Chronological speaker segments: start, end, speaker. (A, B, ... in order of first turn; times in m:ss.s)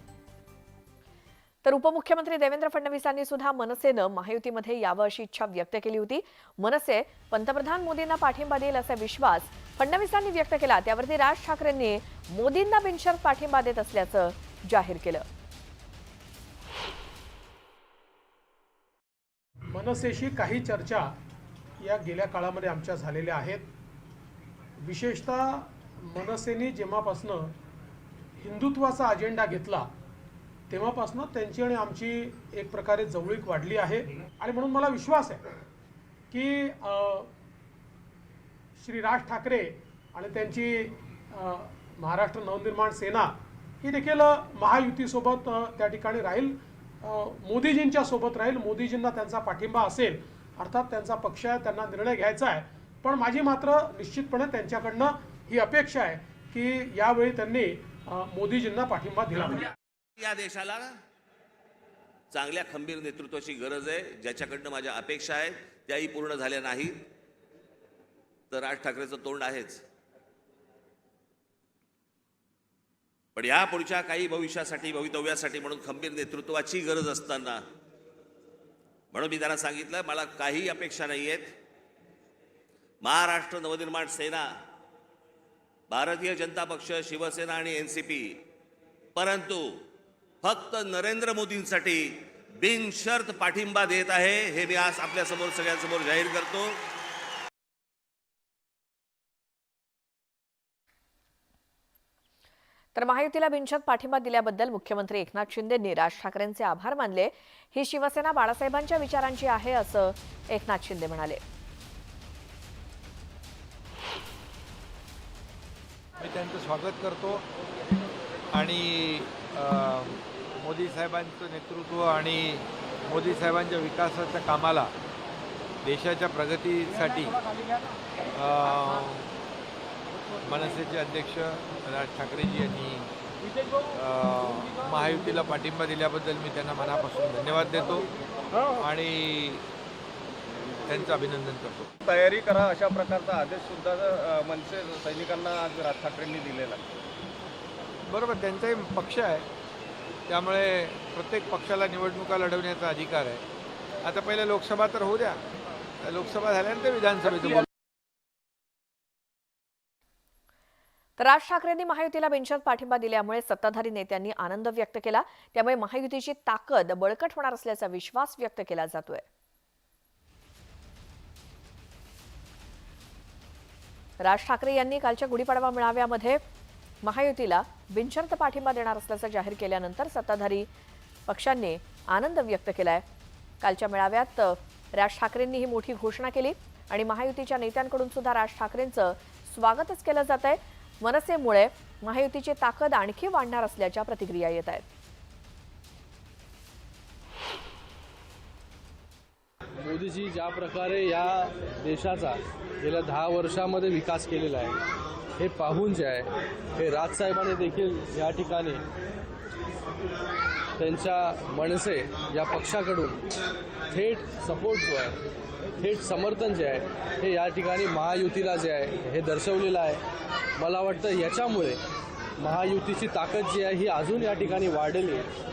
0:01.6-0:15.2 A
0:19.7-0:21.1 B
0:21.8-0:23.7 B
0:24.8-0:27.5 B
0:28.4-0:29.9 B
0:30.7-0:35.4 B
0:36.3-0:37.3 B
0:38.8-0:59.7 B
1:00.2-1:01.0 C
1:02.3-1:07.0 C
1:08.5-1:09.8 C
1:13.4-1:17.6 C
1:19.1-1:21.5 C
1:23.0-1:24.5 C
1:25.9-1:28.4 C
1:29.2-1:29.8 C
1:30.4-1:36.8 C
1:42.9-1:51.4 A
1:56.2-1:57.4 D
1:58.5-2:04.9 D
2:05.8-2:07.4 D
2:08.3-2:09.2 D
2:10.4-2:13.1 D
2:13.9-2:18.1 D
2:18.8-2:19.6 D
2:20.9-2:21.9 D
2:22.0-2:27.1 E
2:28.1-2:29.4 D
2:30.3-2:33.4 D
2:34.0-2:35.4 D
2:36.0-2:37.7 D
2:41.2-2:49.2 A
2:54.2-2:56.4 A
2:57.0-3:00.7 A
3:01.3-3:03.0 A
3:03.6-3:14.8 A
3:19.8-3:24.8 F
3:25.4-3:28.8 F
3:30.8-3:33.2 F
3:33.9-3:35.2 F
3:35.8-3:40.0 F
3:40.6-3:41.8 F
3:42.4-3:45.3 F